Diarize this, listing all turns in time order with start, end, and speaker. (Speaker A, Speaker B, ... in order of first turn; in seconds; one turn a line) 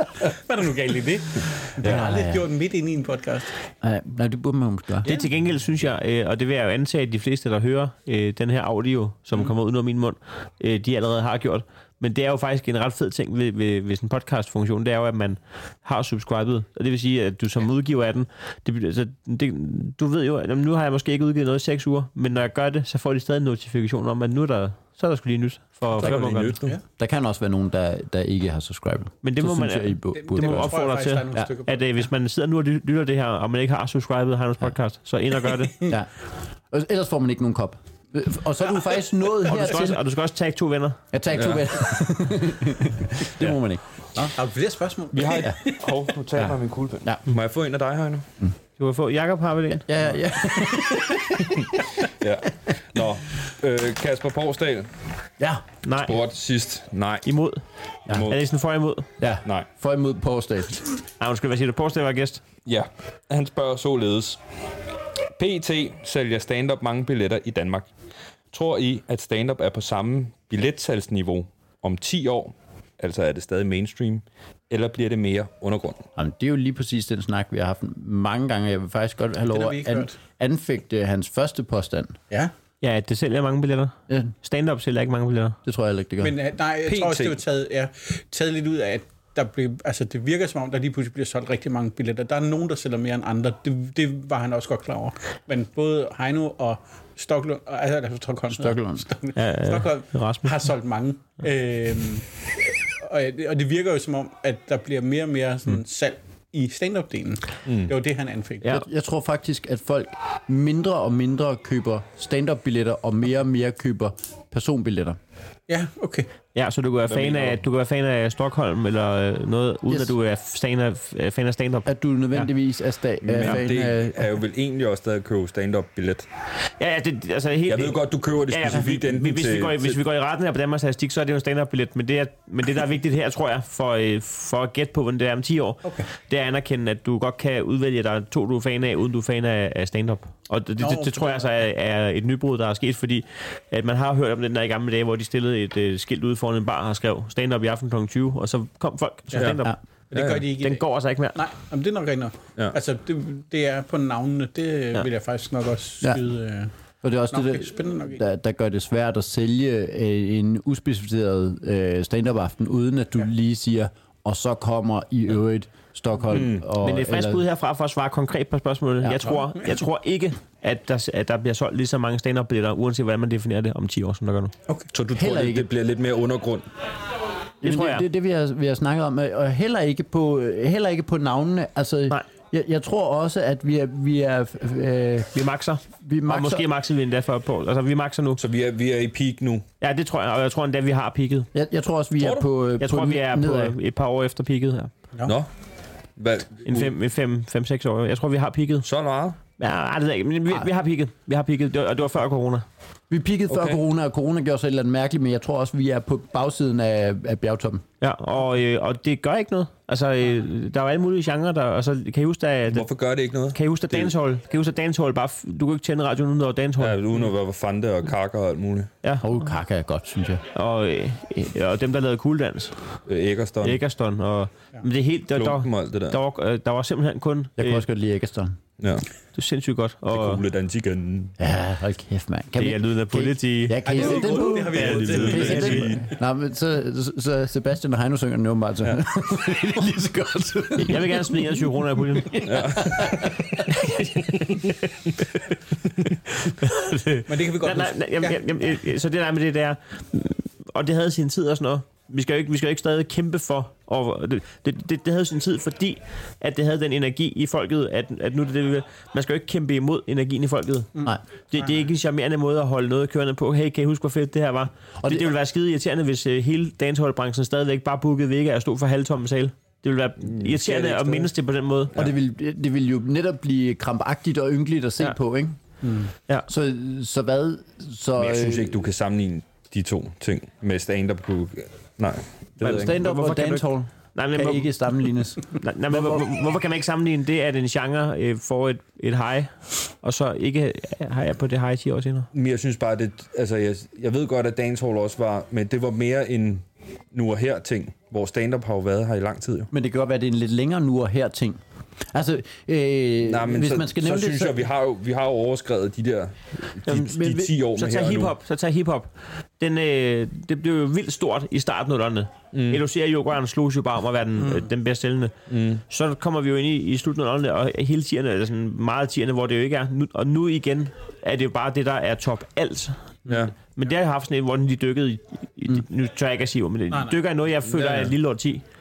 Speaker A: 0.2-3.5
Speaker B: 1.8-2.5
Speaker B: 3.8-5.1
Speaker C: 5.0-26.6
Speaker D: 25.9-26.8
Speaker B: 27.0-30.7
Speaker C: 29.2-35.9
Speaker A: 30.1-32.0
Speaker B: 36.7-40.0
Speaker C: 39.4-41.0
Speaker B: 41.1-44.3
Speaker D: 41.3-41.7
Speaker A: 44.2-45.9
Speaker D: 45.1-48.3
Speaker B: 46.4-47.2
Speaker C: 48.8-49.9
Speaker B: 49.9-52.0
Speaker D: 52.1-54.9
Speaker C: 55.8-56.2
Speaker D: 56.0-57.3
Speaker C: 57.2-57.6
Speaker D: 58.1-58.4
Speaker C: 58.3-59.1
Speaker B: 59.2-60.9
Speaker C: 61.2-62.4
Speaker D: 62.7-64.4
Speaker D: 65.4-67.9
Speaker D: 68.5-76.0
Speaker B: 76.2-82.2
Speaker A: 79.5-80.2
Speaker C: 82.8-85.6
Speaker B: 85.7-86.3
Speaker A: 86.2-102.3
Speaker D: 86.9-87.4
Speaker B: 98.5-99.0
Speaker C: 99.4-100.6
Speaker A: 102.9-108.7
Speaker D: 107.7-107.9
Speaker B: 108.7-115.2
Speaker A: 115.7-116.3
Speaker C: 116.5-122.4
Speaker D: 117.1-117.6
Speaker B: 119.9-120.1
Speaker B: 121.9-124.3
Speaker D: 123.2-126.3
Speaker C: 126.8-149.8
Speaker D: 127.7-130.0
Speaker A: 140.8-141.5
Speaker A: 150.1-150.8
Speaker D: 150.1-150.5
Speaker C: 150.4-151.4
Speaker A: 151.3-156.7
Speaker B: 157.0-167.4
Speaker A: 157.3-158.2
Speaker D: 166.3-166.7
Speaker C: 166.8-174.5
Speaker B: 169.0-169.3
Speaker D: 174.9-176.7
Speaker B: 175.1-175.7
Speaker C: 177.6-178.1
Speaker B: 177.6-185.3
Speaker C: 185.3-188.4
Speaker B: 186.0-186.7
Speaker D: 188.4-189.7
Speaker C: 189.8-191.5
Speaker B: 191.5-193.8
Speaker D: 192.2-192.5
Speaker C: 192.8-194.9
Speaker D: 196.2-196.9
Speaker C: 196.7-198.9
Speaker D: 198.8-199.4
Speaker C: 199.6-202.7
Speaker B: 203.1-207.8
Speaker D: 203.5-203.8
Speaker C: 208.0-212.9
Speaker D: 212.7-214.1
Speaker C: 213.5-217.0
Speaker D: 216.8-218.9
Speaker B: 219.2-220.4
Speaker C: 220.5-222.7
Speaker D: 223.1-223.8
Speaker C: 223.6-227.8
Speaker D: 225.3-226.2
Speaker B: 227.6-228.6
Speaker D: 228.8-229.1
Speaker C: 229.3-230.4
Speaker D: 230.1-231.4
Speaker B: 231.4-243.9
Speaker C: 232.6-236.0
Speaker A: 233.8-235.9
Speaker D: 234.7-236.0
Speaker C: 240.9-242.8
Speaker D: 242.4-243.2
Speaker C: 243.7-244.8
Speaker C: 246.4-261.0
Speaker A: 247.3-248.4
Speaker A: 261.0-261.7
Speaker C: 261.5-272.0
Speaker B: 265.0-265.3
Speaker D: 270.3-271.3
Speaker B: 271.9-275.6
Speaker A: 275.8-276.1
Speaker B: 276.5-278.8
Speaker D: 278.2-283.0
Speaker B: 282.6-286.2
Speaker C: 282.6-284.7
Speaker C: 285.6-292.3
Speaker D: 292.3-299.7
Speaker B: 299.7-301.6
Speaker B: 302.1-304.7
Speaker D: 303.2-308.4
Speaker C: 306.9-315.4
Speaker B: 306.9-307.5
Speaker D: 312.5-312.8
Speaker A: 314.4-314.7
Speaker D: 315.5-315.8
Speaker C: 315.9-323.0
Speaker D: 323.3-323.5
Speaker C: 323.8-328.6
Speaker A: 326.9-327.2
Speaker D: 327.7-328.1